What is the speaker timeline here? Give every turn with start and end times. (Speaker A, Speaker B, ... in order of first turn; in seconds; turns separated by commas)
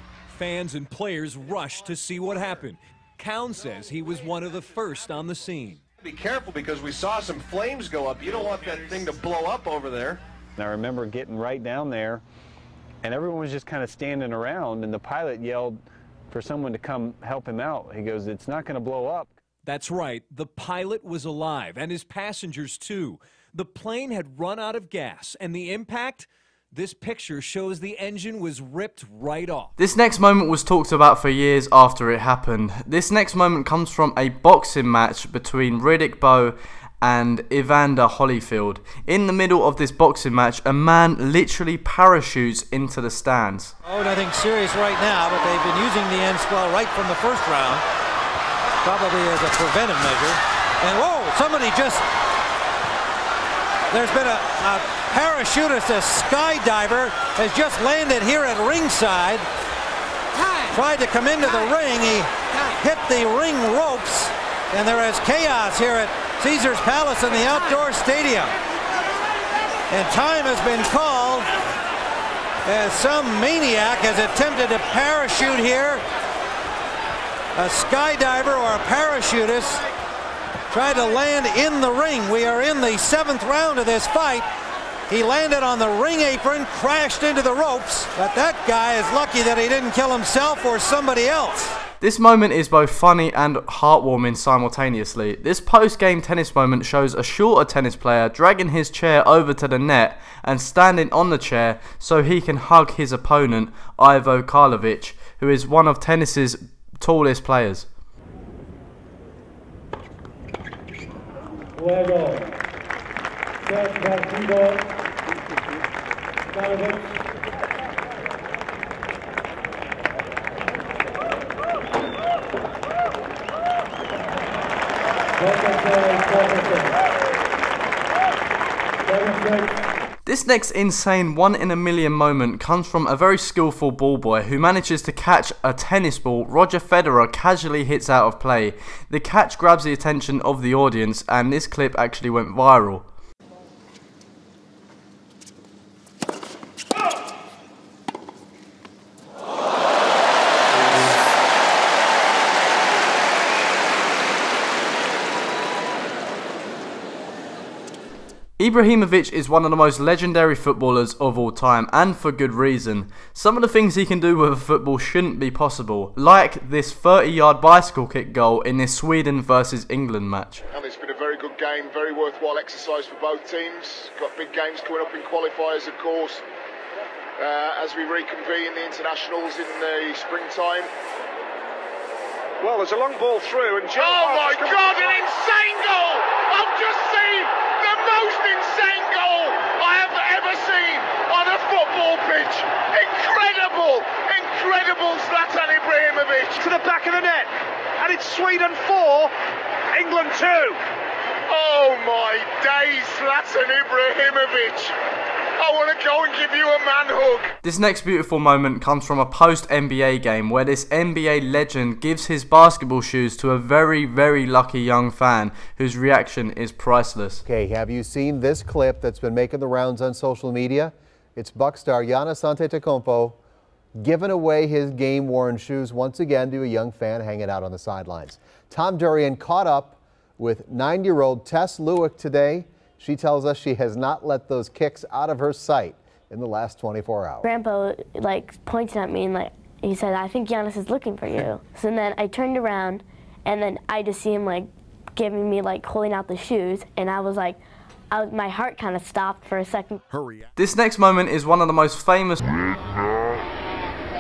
Speaker A: 0.3-5.8, Speaker B: 6.1-10.2, Speaker C: 8.5-8.9, Speaker C: 10.6-12.2, Speaker C: 13.0-19.3, Speaker A: 19.6-29.8, Speaker D: 29.8-43.7, Speaker E: 43.9-47.8, Speaker E: 48.8-52.0, Speaker E: 53.9-59.4, Speaker E: 60.6-68.5, Speaker E: 69.9-71.5, Speaker E: 72.7-76.0, Speaker E: 77.6-79.8, Speaker E: 80.7-84.5, Speaker E: 85.1-91.8, Speaker D: 92.0-107.9, Speaker F: 111.8-112.4, Speaker F: 113.8-114.8, Speaker F: 116.6-117.0, Speaker F: 125.4-126.9, Speaker F: 129.1-129.7, Speaker D: 130.2-143.1, Speaker D: 158.6-170.6, Speaker G: 170.7-176.4, Speaker G: 177.4-180.9, Speaker H: 182.6-185.3, Speaker G: 184.0-196.6, Speaker H: 196.6-199.3, Speaker H: 199.9-200.8, Speaker G: 201.5-204.9, Speaker G: 205.6-207.5, Speaker D: 207.6-217.4, Speaker I: 217.4-223.4, Speaker I: 224.0-237.5, Speaker J: 237.4-250.0, Speaker D: 250.6-252.4